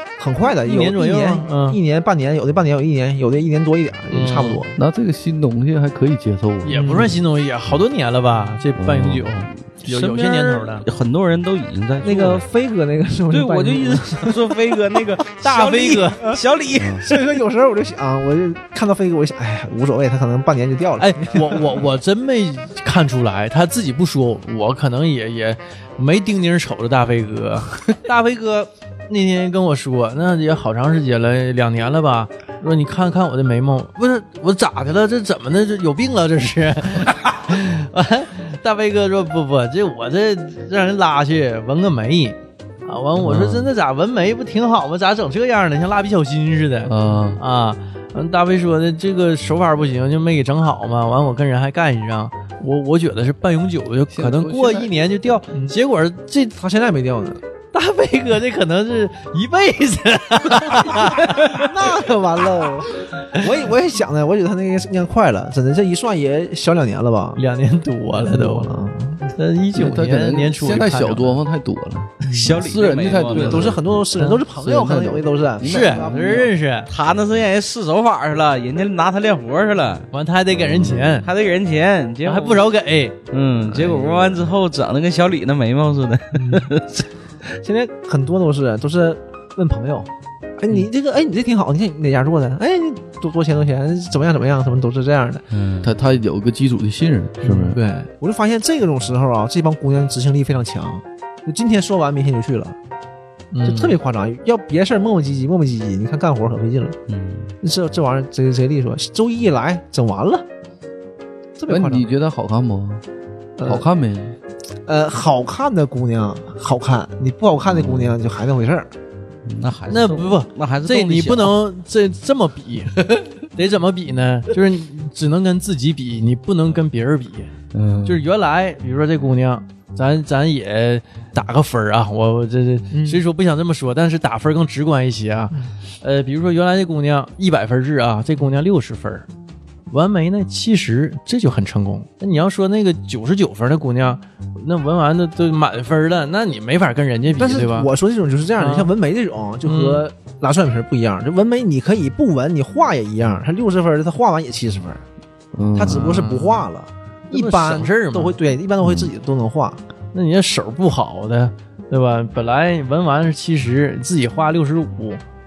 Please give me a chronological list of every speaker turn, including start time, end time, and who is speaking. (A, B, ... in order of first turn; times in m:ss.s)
0:00.2-0:04.8 A
0:00.4-0:01.8 B
0:04.1-0:04.6 B
0:04.7-0:07.2 C
0:06.6-0:10.8 B
0:06.7-0:07.1 A
0:08.8-0:09.4 C
0:09.8-0:12.4 D
0:12.0-0:15.0 A
0:13.3-0:17.2 D
0:15.4-0:16.3 B
0:16.8-0:17.1 C
0:17.0-0:21.8 A
0:21.0-0:56.5 B
0:43.2-0:43.7 C
0:46.8-0:47.4 C
0:54.1-0:54.9 C
0:55.5-0:55.8 A
0:56.6-0:57.4 A
0:57.7-1:01.7 B
1:00.8-1:07.4 A
1:07.4-1:11.4 B
1:08.1-1:09.3 A
1:09.7-1:16.5 C
1:12.3-1:13.7 D
1:13.3-1:16.5 A
1:14.2-1:14.4 B
1:15.6-1:16.9 B
1:16.9-1:20.1 D
1:20.1-1:21.3 B
1:20.7-1:21.0 C
1:21.1-1:22.7 D
1:22.2-1:23.2 B
1:23.3-1:27.1 D
1:27.6-1:35.4 A
1:35.5-1:35.9 D
1:35.8-1:37.8 C
1:37.5-1:37.8 B
1:37.5-1:42.8 A
1:43.5-1:43.9 B
1:43.6-1:47.0 A
1:47.1-1:47.5 D
1:47.6-1:50.4 A
1:51.6-1:52.1 A
1:51.7-1:53.0 C
1:53.6-1:53.8 A
1:53.6-1:54.3 C
1:54.8-1:58.9 A
1:57.7-1:58.1 C
1:59.5-2:01.6 D
1:59.9-2:07.5 B
2:07.7-2:08.2 C
2:08.0-2:19.3 B
2:12.9-2:13.2 A
2:19.9-2:27.9 B
2:27.3-2:35.0 A
2:28.6-2:28.9 B
2:29.6-2:30.0 B
2:35.5-2:36.2 C
2:35.7-2:39.8 A
2:35.8-2:36.7 B
2:37.3-2:38.4 B
2:38.8-2:39.1 C
2:40.1-2:45.2 B